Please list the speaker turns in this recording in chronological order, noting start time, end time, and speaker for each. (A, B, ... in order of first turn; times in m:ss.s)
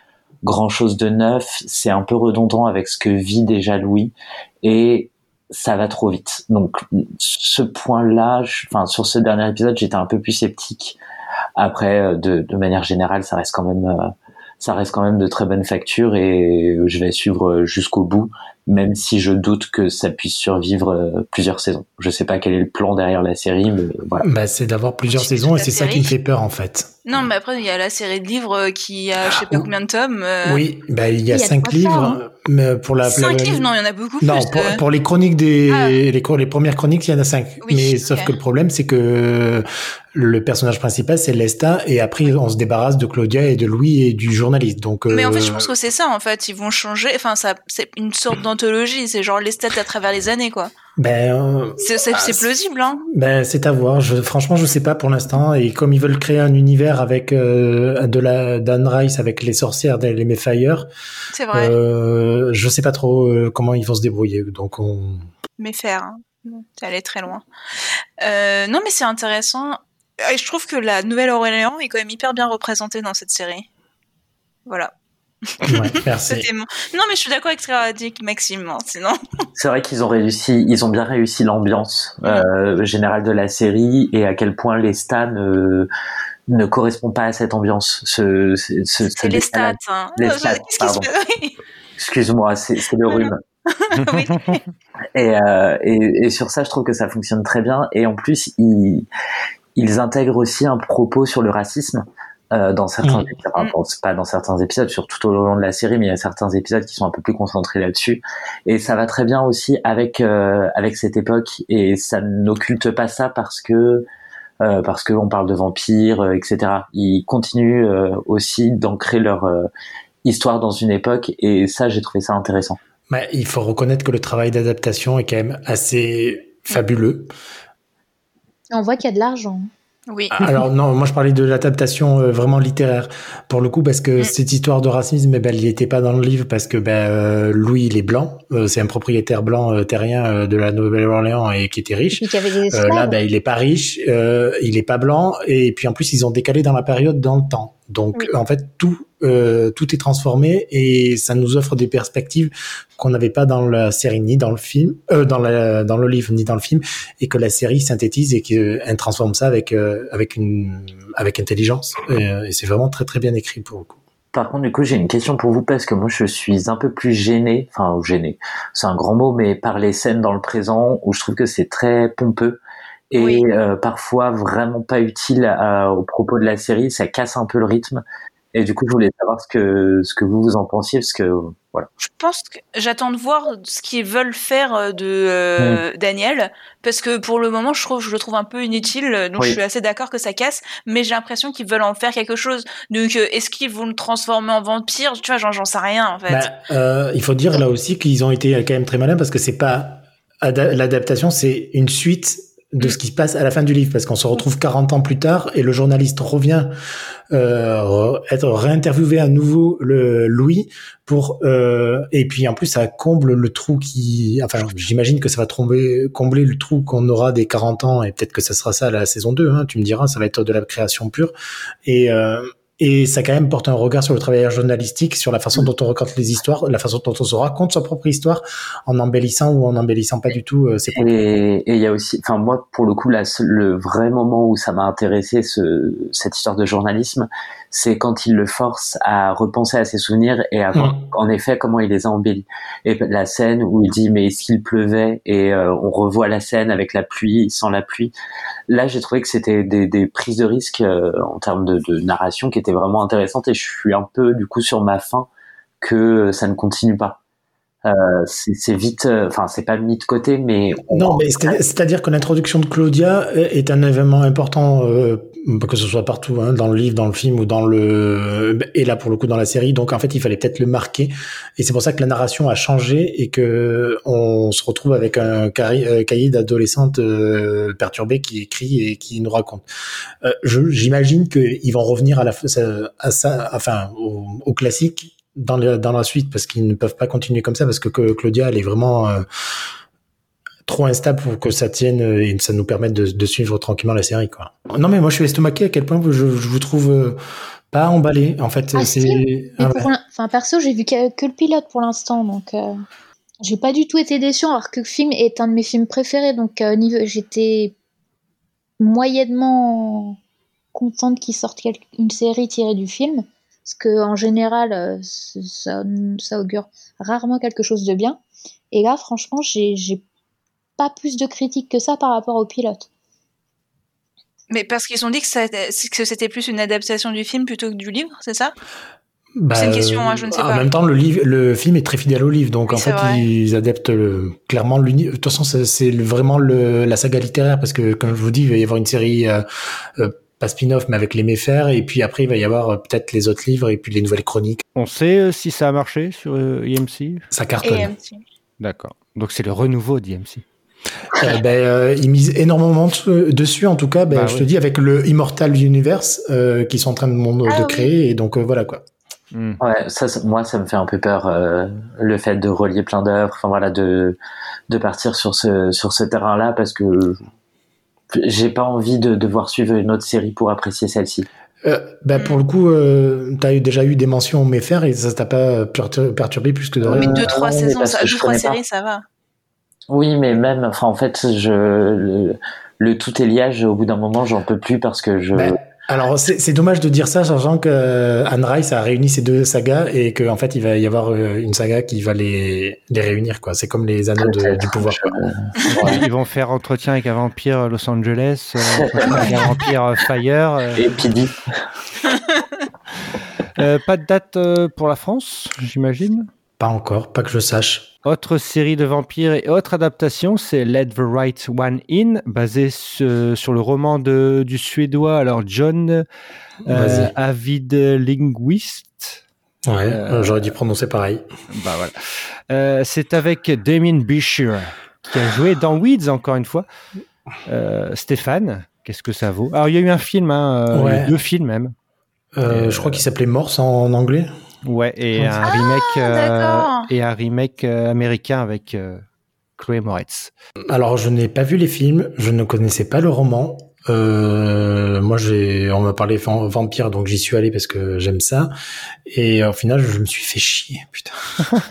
0:00.4-0:11.0 A
0:11.6-0:24.3 A
0:24.2-0:26.9 B
0:25.2-0:26.1 C
0:27.1-0:30.7 C
0:30.4-0:33.7 B
0:31.3-0:32.2 D
0:33.0-0:34.8 C
0:34.2-0:45.7 B
0:35.7-0:36.0 C
0:37.6-0:38.3 C
0:45.1-0:50.7 C
0:51.0-0:52.5 B
0:51.8-0:53.0 C
0:53.1-1:00.9 B
1:01.3-1:01.8 C
1:01.5-1:05.3 B
1:05.6-1:07.4 C
1:08.2-1:13.7 C
1:14.7-1:14.9 C
1:15.5-1:19.2 C
1:15.7-1:16.5 B
1:19.6-1:25.9 A
1:26.5-1:31.1 A
1:29.1-1:31.6 C
1:32.0-1:33.4 A
1:33.1-1:34.6 C
1:33.9-1:34.6 E
1:35.2-1:39.1 A
1:39.8-1:54.1 A
1:43.0-1:43.3 B
1:54.6-1:59.7 A
2:00.2-2:02.8 A
2:03.1-2:07.3 B
2:08.7-2:09.7 D
2:10.1-2:10.5 C
2:10.3-2:44.0 B
2:22.1-2:23.2 D
2:44.3-2:52.6 A
2:53.1-3:01.9 A
2:53.2-2:53.4 C
3:02.0-3:16.5 C
3:16.3-3:26.7 B
3:27.3-3:41.3 B
3:41.8-3:51.1 B
3:50.9-4:08.1 A
4:00.7-4:01.0 B
4:08.7-4:15.3 A
4:15.8-4:17.2 A
4:17.8-4:21.6 A
4:20.9-4:39.6 B
4:40.2-4:49.2 B
4:50.7-4:57.2 B
4:57.7-4:59.9 B
4:58.8-5:02.8 D
5:03.4-5:07.8 D
5:08.8-5:10.2 D
5:10.7-5:18.2 D
5:18.7-5:20.0 D
5:20.8-5:22.9 D
5:24.5-5:28.5 C
5:29.4-5:39.4 B
5:29.5-5:30.7 C
5:32.7-5:33.2 C
5:40.0-5:44.6 B
5:44.8-5:47.3 E
5:47.3-5:47.9 B
5:47.6-5:48.2 C
5:48.6-5:50.4 E
5:51.2-5:58.8 B
5:54.1-5:54.5 E
5:57.5-5:57.9 C
5:59.3-5:59.6 E
5:59.6-6:04.2 A
6:04.7-6:07.3 A
6:08.1-6:11.3 A
6:11.6-6:17.3 B
6:12.2-6:12.4 C
6:16.8-6:18.6 A
6:16.9-6:19.0 C
6:19.9-6:25.6 A
6:25.3-6:35.2 B
6:34.2-6:36.1 A
6:35.7-6:40.9 E
6:38.6-6:39.5 A
6:39.1-6:39.4 C
6:40.8-6:41.6 A
6:42.1-6:42.6 C
6:43.6-6:46.3 E
6:46.6-6:47.9 B
6:48.0-6:56.0 E
6:56.7-6:59.2 E
6:56.7-6:57.1 B
6:59.7-7:01.2 B
6:59.9-7:00.4 E
7:01.5-7:06.7 E
7:07.5-7:11.7 E
7:10.7-7:11.1 B
7:12.4-7:14.3 B
7:12.5-7:13.0 E
7:14.6-7:19.0 E
7:15.2-7:15.4 B
7:15.4-7:16.9 C
7:19.6-7:20.3 E
7:20.7-7:28.5 B
7:29.1-7:31.2 B